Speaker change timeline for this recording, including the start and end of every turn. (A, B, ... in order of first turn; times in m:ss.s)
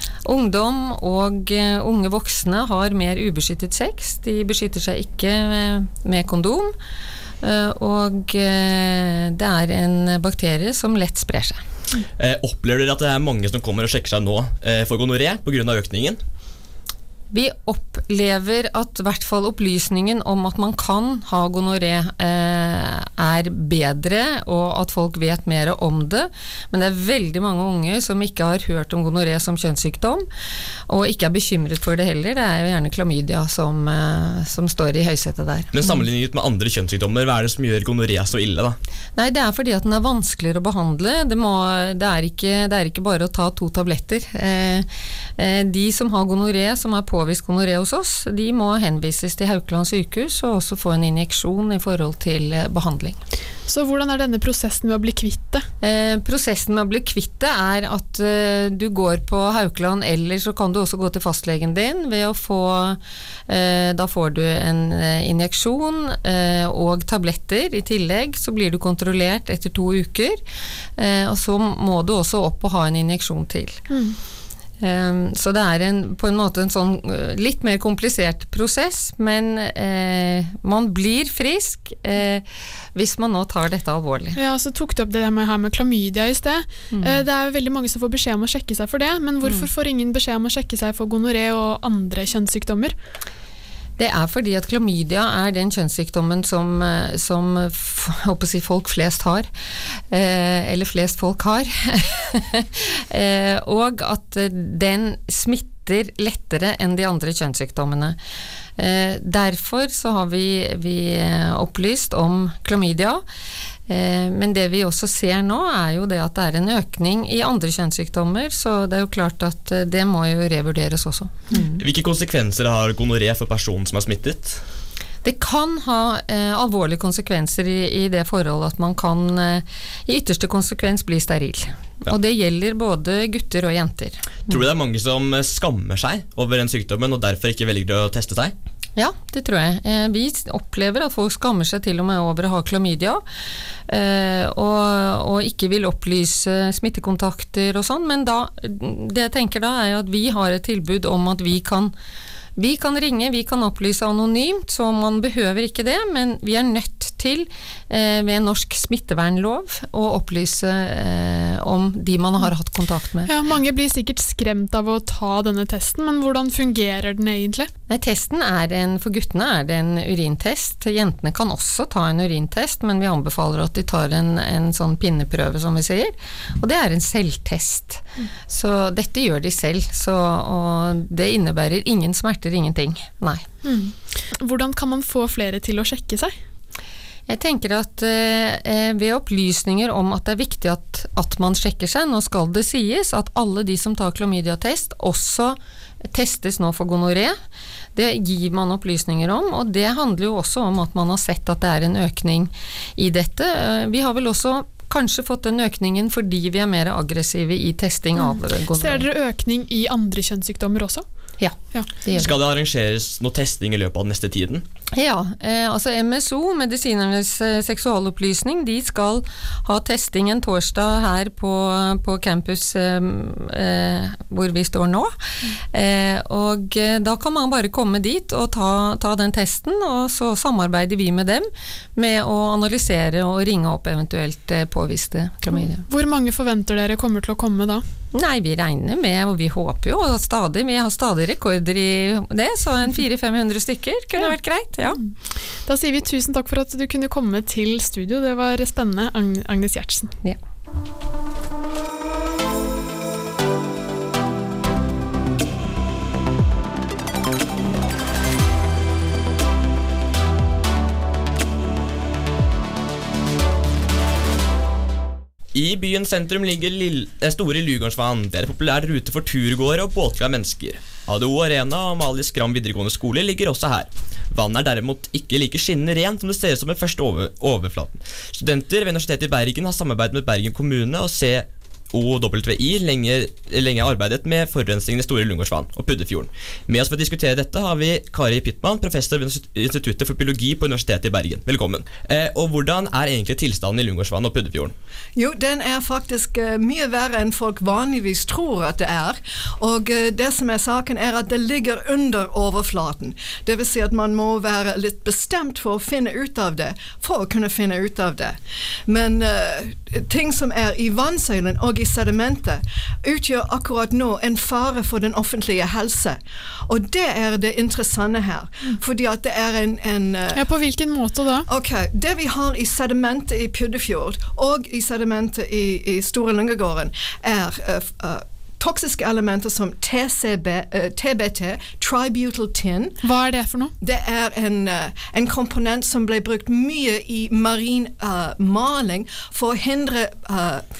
0:00.2-0:06.7 A
0:07.4-0:11.6 A
0:12.2-0:16.2 B
0:17.3-0:30.2 A
0:30.9-0:36.0 A
0:35.7-0:38.8 B
0:39.2-0:44.9 A
0:45.4-0:53.2 A
0:53.7-0:55.7 C
0:55.8-1:10.4 A
1:11.0-1:13.8 A
1:13.9-1:14.2 C
1:14.8-1:24.4 A
1:24.3-1:32.9 C
1:26.9-1:27.2 A
1:29.4-1:29.7 A
1:34.0-1:39.5 A
1:40.1-1:48.2 A
1:48.8-1:53.2 A
1:53.9-2:01.8 A
2:01.8-2:04.6 B
2:05.2-2:14.6 A
2:14.5-2:18.5 B
2:19.0-2:23.2 A
2:23.9-2:31.9 A
2:32.6-2:43.3 A
2:43.2-2:47.7 C
2:47.9-3:03.4 A
3:03.6-3:06.4 C
3:07.3-3:17.4 A
3:17.9-3:29.1 A
3:28.2-3:31.0 C
3:31.4-3:32.4 A
3:32.2-3:34.6 B
3:34.9-3:55.8 A
3:55.5-3:57.8 C
3:58.1-4:05.1 A
4:04.9-4:10.1 C
4:25.5-4:54.7 B
4:55.2-5:20.4 D
5:20.3-5:21.5 C
5:21.5-5:33.0 D
5:33.0-5:33.7 C
5:33.8-5:40.6 D